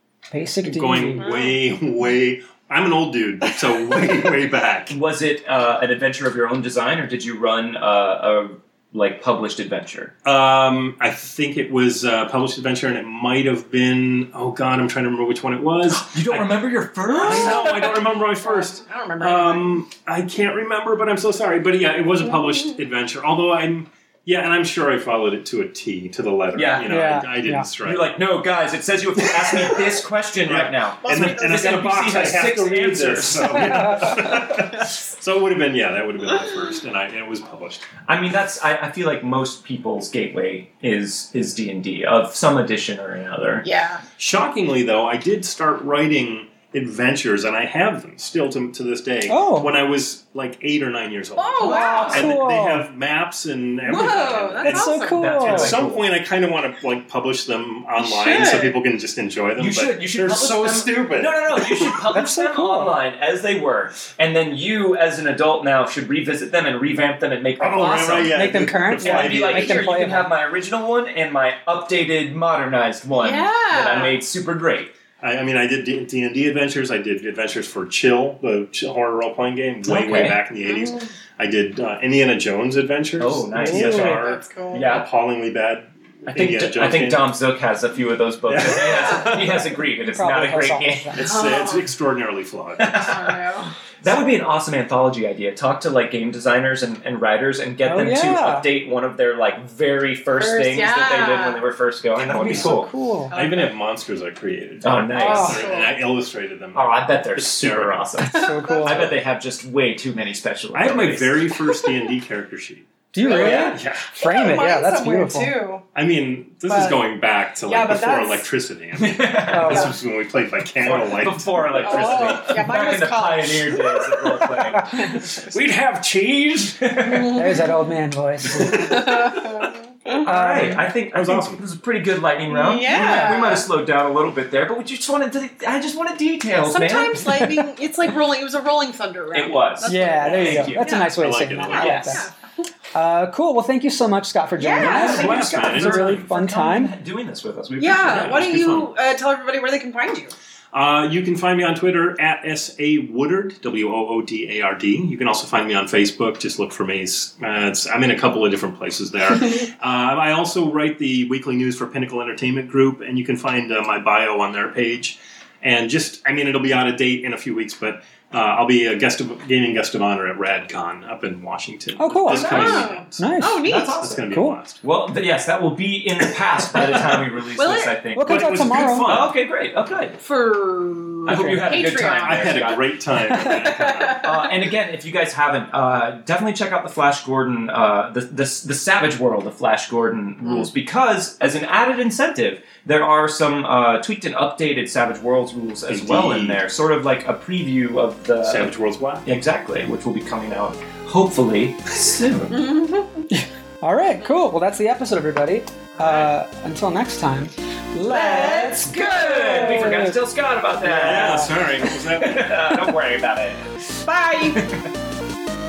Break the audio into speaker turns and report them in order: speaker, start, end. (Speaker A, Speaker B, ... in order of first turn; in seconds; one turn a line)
Speaker A: 0.3-1.3
Speaker B: 0.6-4.9
Speaker C: 1.2-1.6
Speaker D: 4.9-10.1
Speaker B: 10.2-16.5
Speaker D: 15.9-17.7
Speaker B: 17.1-28.2
Speaker C: 17.2-19.7
Speaker D: 26.5-26.9
Speaker A: 26.9-27.7
Speaker D: 27.8-34.2
Speaker B: 29.3-29.8
Speaker B: 30.4-38.0
Speaker C: 31.0-31.6
Speaker A: 33.7-33.9
Speaker D: 38.1-43.7
Speaker C: 43.6-44.0
Speaker B: 44.2-62.0
Speaker A: 49.3-49.7
Speaker C: 51.4-52.3
Speaker D: 51.6-52.2
Speaker A: 51.6-52.9
Speaker C: 53.8-55.3
Speaker A: 54.6-55.8
Speaker D: 55.2-56.1
Speaker C: 58.0-58.8
Speaker D: 59.6-74.9
Speaker A: 62.1-63.0
Speaker B: 67.6-70.0
Speaker A: 68.3-70.3
Speaker C: 73.2-74.2
Speaker B: 75.2-87.3
Speaker D: 79.8-80.4
Speaker C: 80.6-81.1
Speaker D: 83.2-85.1
Speaker A: 83.5-84.2
Speaker C: 84.1-85.0
Speaker D: 86.3-91.2
Speaker B: 88.5-89.7
Speaker A: 90.0-91.3
Speaker B: 91.1-93.1
Speaker C: 91.2-91.9
Speaker D: 92.8-93.3
Speaker C: 92.9-93.8
Speaker D: 94.0-102.9
Speaker A: 97.8-98.7
Speaker C: 100.4-101.6
Speaker A: 102.3-103.3
Speaker C: 103.3-103.7
Speaker B: 103.3-108.1
Speaker D: 104.8-105.7
Speaker C: 105.1-106.0
Speaker D: 106.7-111.4
Speaker C: 108.3-109.2
Speaker A: 108.3-109.1
Speaker B: 110.7-114.1
Speaker A: 113.1-115.5
Speaker C: 113.2-115.8
Speaker B: 116.0-122.7
Speaker C: 116.7-117.0
Speaker C: 117.7-118.5
Speaker D: 119.0-119.9
Speaker A: 119.5-119.9
Speaker D: 120.8-125.3
Speaker C: 121.8-125.5
Speaker B: 125.2-127.3
Speaker D: 126.8-127.2
Speaker C: 127.0-127.7
Speaker A: 127.3-129.0
Speaker B: 128.5-129.1
Speaker C: 128.6-130.3
Speaker D: 130.2-137.5
Speaker A: 130.2-130.9
Speaker B: 131.1-131.6
Speaker C: 132.5-133.7
Speaker C: 136.7-141.1
Speaker D: 139.3-141.0
Speaker A: 139.9-142.2
Speaker B: 141.2-142.1
Speaker C: 141.7-142.3
Speaker D: 141.8-142.2
Speaker A: 142.9-146.9
Speaker C: 144.6-145.4
Speaker D: 144.8-148.7
Speaker B: 144.8-146.3
Speaker C: 147.8-150.3
Speaker B: 148.0-148.9
Speaker B: 150.7-174.8
Speaker A: 172.0-173.7
Speaker C: 172.3-174.1
Speaker D: 172.3-172.9
Speaker D: 173.6-174.3
Speaker A: 174.3-174.6
Speaker D: 174.8-180.2
Speaker C: 177.6-177.9
Speaker A: 178.1-179.1
Speaker B: 178.2-179.4
Speaker C: 180.2-182.7
Speaker D: 181.3-182.9
Speaker A: 181.3-181.7
Speaker B: 182.1-184.3
Speaker C: 183.3-184.5
Speaker D: 184.2-198.7
Speaker C: 190.4-190.7
Speaker B: 195.9-196.6
Speaker B: 198.4-199.3
Speaker D: 199.2-202.6
Speaker C: 202.5-203.3
Speaker A: 203.3-210.2
Speaker C: 208.1-209.0
Speaker D: 208.8-213.6
Speaker A: 210.8-211.5
Speaker B: 210.9-212.7
Speaker C: 214.0-214.7
Speaker D: 214.6-214.9